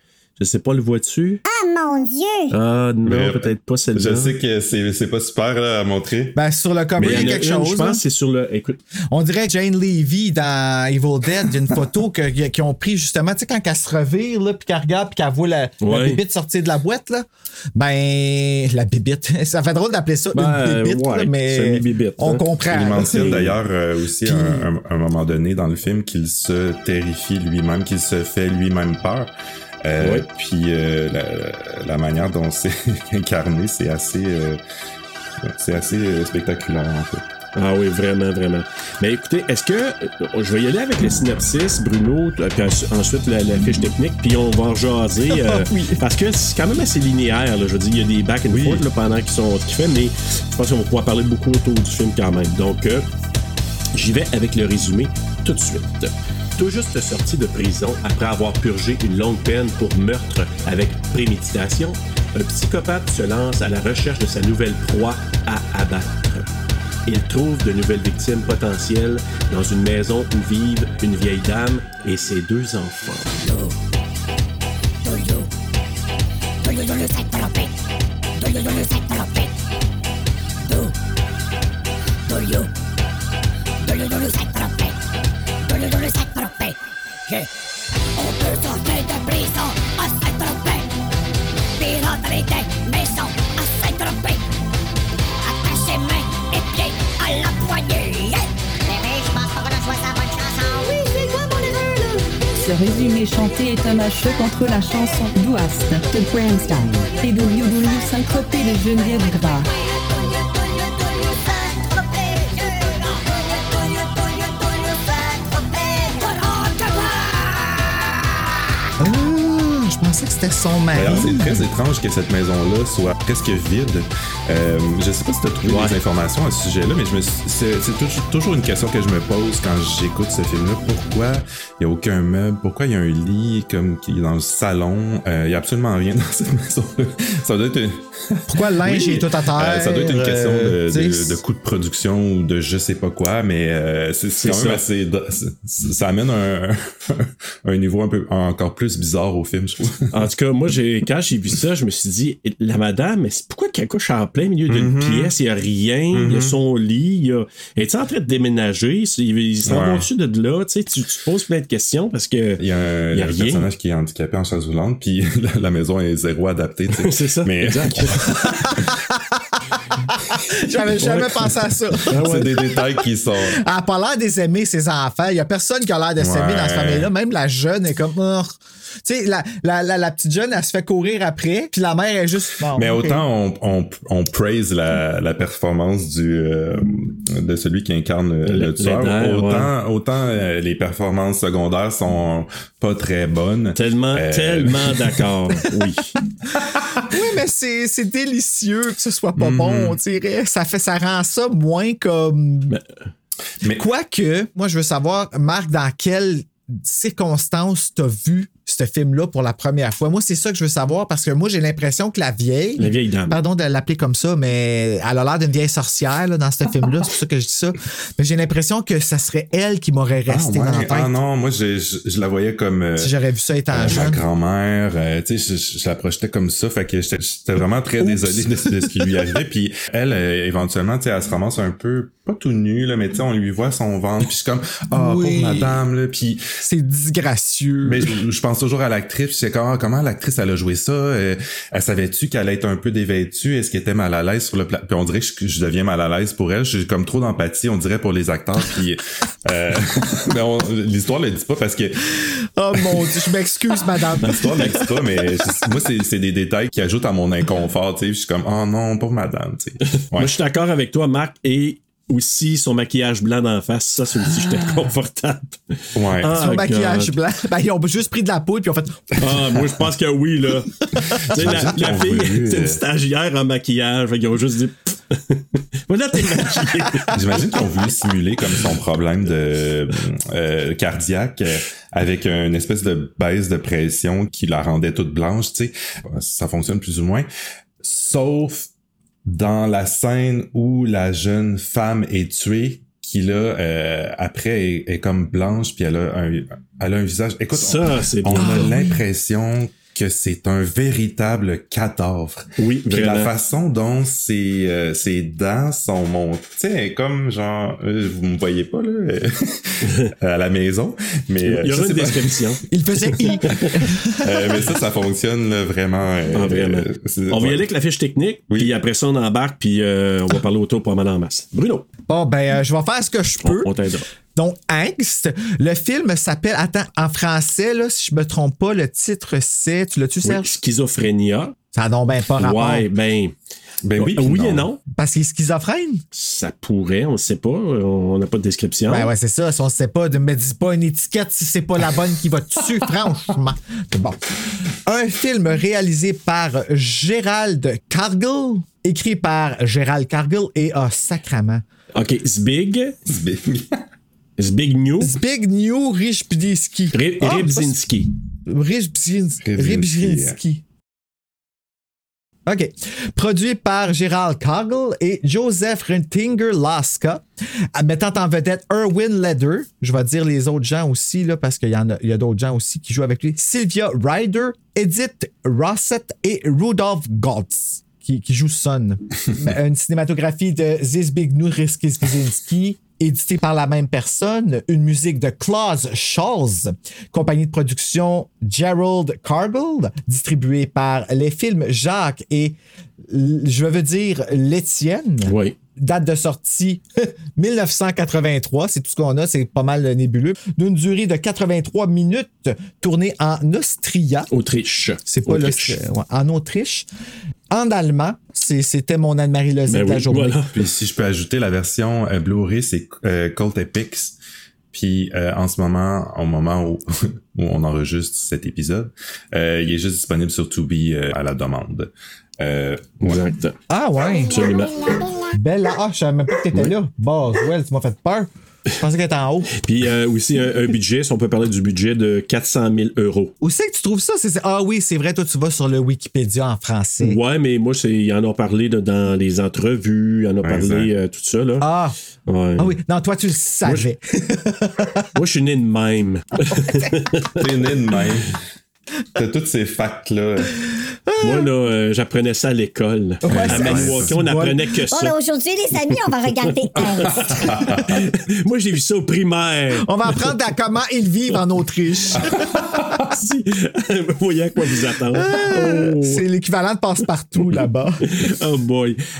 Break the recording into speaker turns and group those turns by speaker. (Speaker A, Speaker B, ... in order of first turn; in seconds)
Speaker A: 0.4-1.4, 2.5-4.3, 7.0-8.8, 15.8-16.2, 20.3-22.4, 23.0-23.5, 30.0-30.2, 37.5-53.1, 53.9-66.5, 67.0-73.5, 125.7-125.9, 144.4-144.8, 150.1-163.7, 167.0-168.3, 171.0-171.5, 172.1-172.5, 188.4-189.7, 193.7-196.1, 212.8-213.4, 260.0-267.1, 269.2-270.7, 271.3-277.2, 297.5-298.7, 302.6-303.3, 309.8-310.1, 311.4-312.6, 313.4-313.7, 316.3-321.9, 323.4-324.1, 330.2-331.6, 332.4-333.3, 334.0-334.8, 336.1-339.1, 351.9-353.0, 354.4-355.2, 356.9-358.1, 395.2-395.6, 404.3-405.8, 409.7-410.6, 423.0-423.6, 424.3-424.8, 429.6-433.3, 437.0-441.7, 442.3-442.7, 445.1-447.4, 451.2-455.2, 455.9-460.3, 463.1-466.2, 468.0-469.0
Speaker B: 1.4-2.5, 76.6-77.7, 78.4-79.5, 82.3-82.7, 83.9-84.9, 85.7-86.8, 88.2-90.9, 91.8-94.4, 95.5-102.4, 110.5-118.0, 424.5-425.3, 454.9-457.7
Speaker C: 3.0-6.3, 7.0-7.4, 22.7-29.3, 29.8-34.6, 35.4-37.2, 48.5-48.9, 120.9-150.1, 154.7-155.3, 156.1-156.5, 159.7-160.1, 162.6-169.0, 172.1-173.6, 176.2-177.1, 182.7-195.2, 196.5-197.1, 199.4-200.0, 220.3-223.1, 223.7-236.4, 237.8-252.2, 254.2-260.3, 265.9-266.4, 271.1-272.8, 277.1-287.3, 287.8-288.7, 289.2-312.5, 314.1-317.6, 333.8-334.7, 353.1-353.8, 359.4-360.4, 410.5-414.1, 414.7-423.2, 440.4-440.9, 447.4-448.4, 449.1-450.6, 453.3-454.1, 456.8-457.9, 462.1-463.0
Speaker D: 6.3-8.0, 9.1-23.5, 24.2-24.7, 45.3-46.0, 119.0-121.7, 138.5-141.4, 168.5-169.3, 170.3-172.9, 173.5-183.2, 197.1-202.8, 203.6-221.1, 223.0-224.2, 228.0-229.2, 234.9-235.8, 236.6-238.2, 252.5-255.6, 266.3-269.2, 270.8-271.4, 298.3-299.0, 312.7-314.7, 322.1-323.7, 324.4-330.5, 331.7-332.9, 334.9-336.0, 338.9-351.6, 355.0-357.8, 358.4-360.6, 362.4-404.3, 405.1-406.9, 407.5-410.4, 423.7-424.5, 425.3-429.5, 433.4-437.2, 441.6-441.9, 442.6-445.1, 446.5-447.1, 451.1-451.5, 453.2-454.6, 459.7-463.0, 465.1-468.3
Speaker E: 102.5-109.7